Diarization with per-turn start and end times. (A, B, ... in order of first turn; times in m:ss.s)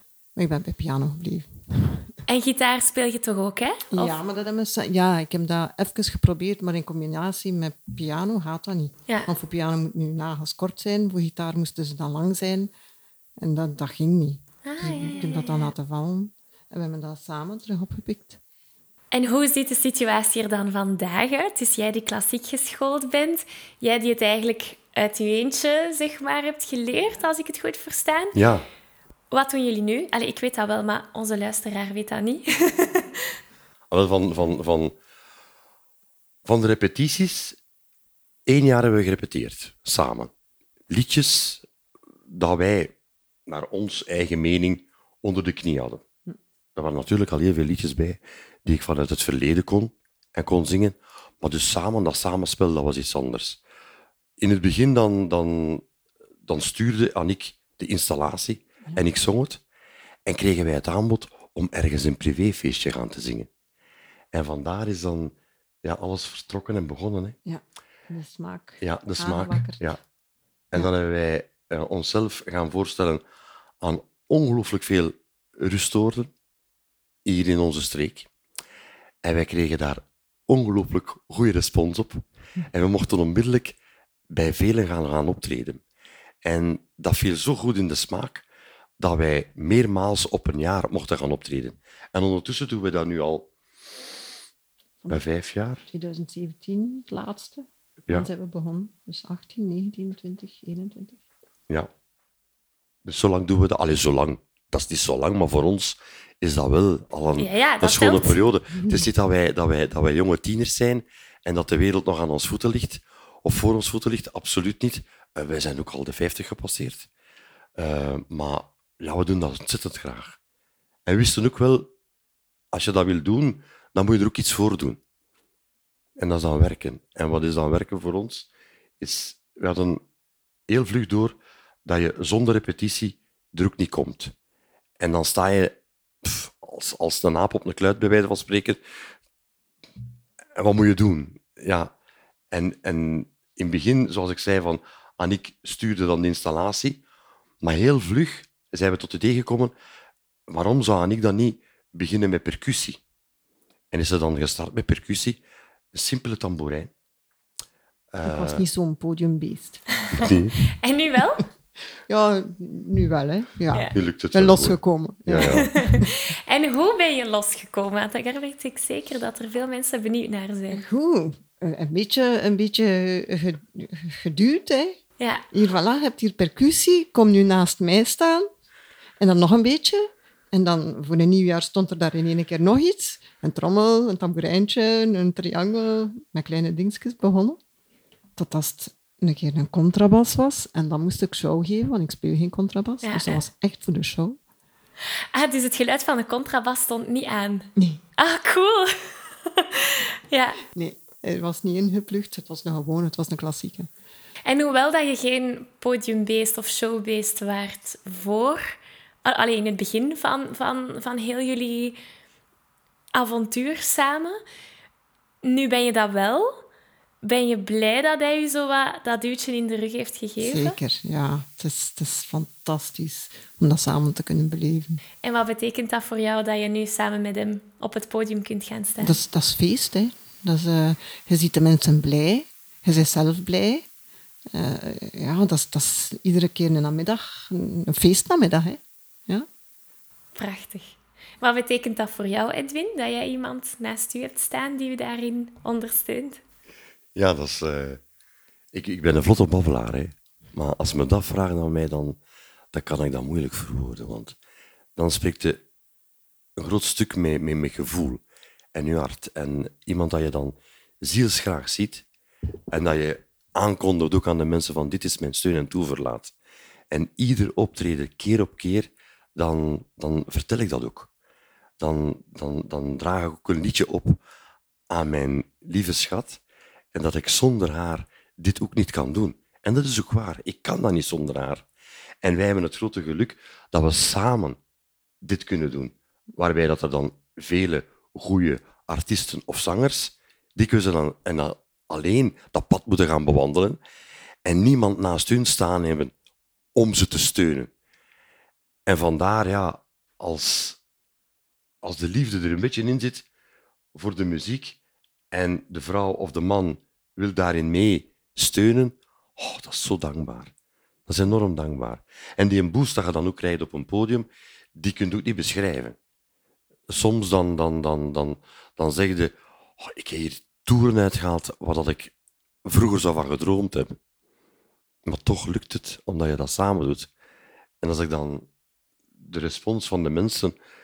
0:00.4-0:02.1 A
0:02.3-0:04.2 B
0:03.9-0:12.7 A
0:13.4-0:18.4 A
0:14.6-0:15.7 B
0:19.1-0:28.4 B
0:28.3-0:28.6 C
0:29.3-0:33.2 B
0:33.9-0:34.9 C
0:36.4-0:37.6 C
0:38.5-0:40.3 C
0:40.9-0:41.6 C
0:42.3-0:42.9 C
0:43.5-0:46.0 C
0:46.8-0:53.6 C
0:54.4-0:55.8 C
0:56.5-0:59.6 C
1:00.2-1:03.5 C
1:04.3-1:07.4 C
1:07.4-1:09.9 A
1:08.8-1:10.0 C
1:10.7-1:13.2 C
1:13.8-1:16.3 C
1:17.2-1:18.3 C
1:19.2-1:23.8 C
1:24.3-1:25.8 C
1:26.4-1:28.4 C
1:29.0-1:33.5 C
1:35.1-1:35.8 C
1:35.9-1:41.2 A
1:43.0-1:57.1 C
1:47.4-1:48.4 B
1:48.7-1:49.1 A
1:57.8-2:00.4 C
2:01.0-2:01.9 C
2:02.7-2:05.0 C
2:06.2-2:08.5 C
2:09.0-2:10.0 C
2:10.7-2:14.3 C
2:15.0-2:18.8 C
2:20.6-2:21.9 C
2:22.5-2:27.0 C
2:27.6-2:29.7 C
2:30.5-2:33.0 C
2:33.9-2:35.4 C
2:35.9-2:36.9 C
2:38.1-2:38.6 C
2:38.2-2:39.8 A
2:40.2-2:40.6 C
2:40.8-2:41.4 B
2:42.1-2:46.1 A
2:43.9-2:45.7 C
2:45.4-2:50.8 B
2:50.7-2:55.0 A
2:55.2-2:55.4 B
2:55.5-2:58.5 A
2:59.2-3:07.6 A
3:08.4-3:14.4 A
3:13.0-3:13.4 B
3:15.3-3:18.9 B
3:17.8-3:18.0 A
3:19.5-3:20.6 B
3:20.7-3:23.9 A
3:24.4-3:28.6 B
3:29.2-3:32.0 B
3:33.1-3:34.4 B
3:35.4-3:36.6 B
3:37.2-3:40.8 B
3:40.4-3:45.0 A
3:45.2-3:49.2 B
3:49.0-3:53.9 A
3:54.5-3:59.5 A
4:00.4-4:06.4 B
4:07.1-4:08.0 C
4:08.7-4:12.2 C
4:12.7-4:14.4 C
4:15.0-4:15.6 C
4:16.6-4:18.2 C
4:18.7-4:22.0 C
4:22.7-4:26.3 C
4:26.9-4:31.1 C
4:31.8-4:34.2 C
4:34.9-4:36.4 C
4:36.9-4:41.6 C
4:42.2-4:44.6 C
4:45.2-4:53.8 C
4:54.4-4:56.1 C
4:56.7-4:57.7 C
4:58.9-5:00.8 C
5:01.8-5:03.2 C
5:03.9-5:04.8 C
5:05.3-5:10.5 C
5:11.1-5:16.0 C
5:16.9-5:22.1 C
5:22.6-5:24.0 C
5:25.0-5:27.1 C
5:27.8-5:28.5 C
5:29.2-5:30.5 C